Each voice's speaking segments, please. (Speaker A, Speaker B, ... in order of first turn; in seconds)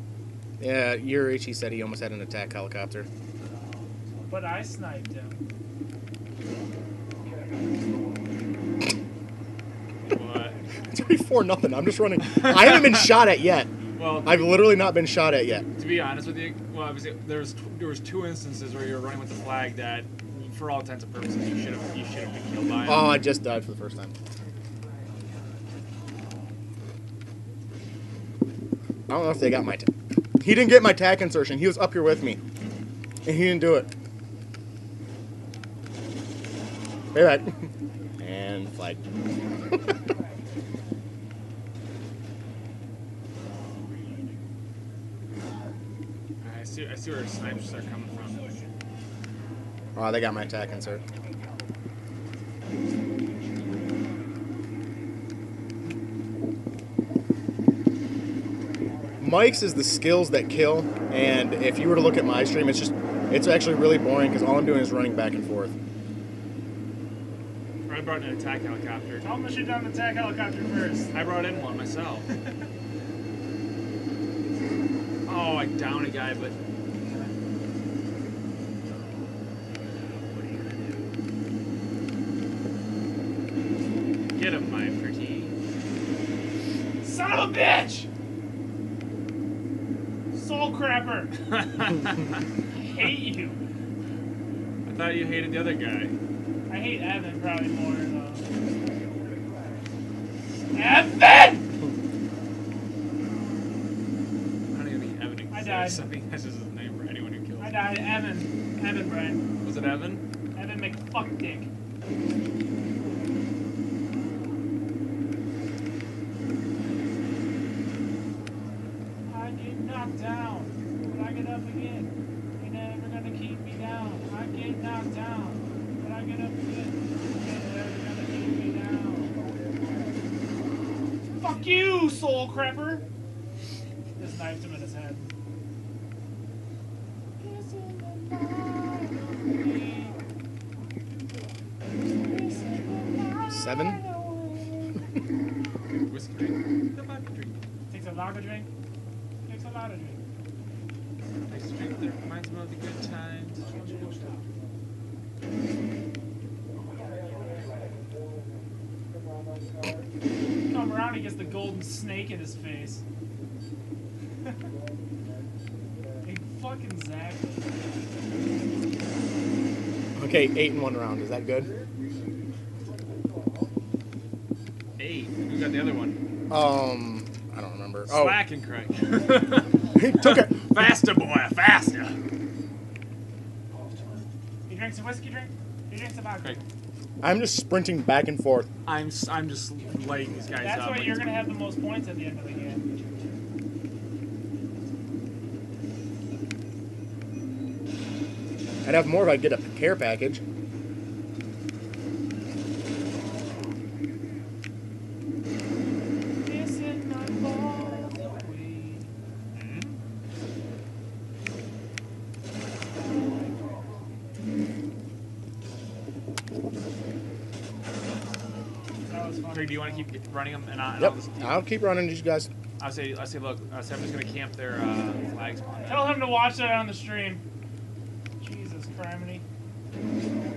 Speaker A: 0.6-3.1, 10.9-15.7, 22.8-24.1, 29.1-29.9, 30.4-32.4, 33.2-33.9, 37.1-37.7, 38.2-39.0, 50.0-51.0, 59.2-65.7, 143.5-144.0, 170.1-171.7, 176.5-178.4, 179.9-180.5, 187.2-188.7, 198.8-200.4, 221.0-222.5
Speaker B: 4.3-5.4, 69.2-71.3, 87.0-88.1, 90.3-91.3, 92.7-93.6, 96.7-98.5, 100.7-101.7, 105.5-106.0, 107.6-109.5, 110.5-111.7, 119.3-129.3, 131.2-133.0, 134.2-135.3, 137.4-140.2, 142.2-144.9, 147.9-148.7, 149.4-150.2, 153.7-154.4, 160.6-163.0, 166.2-167.8, 184.7-186.6, 190.6-193.2, 206.4-209.1, 219.1-220.1, 225.9-227.4, 228.4-229.4
Speaker C: 10.0-10.6, 12.2-13.1, 13.9-14.5, 15.8-23.2, 46.4-48.5, 67.8-69.3, 71.1-72.3, 75.2-76.5, 79.8-81.0, 84.3-85.5, 91.5-92.4, 94.8-96.1, 104.7-107.9, 109.6-110.2, 145.9-147.6, 151.5-154.2, 175.0-176.2, 178.1-182.2, 188.8-191.4, 209.5-210.0, 219.5-221.7, 222.8-226.3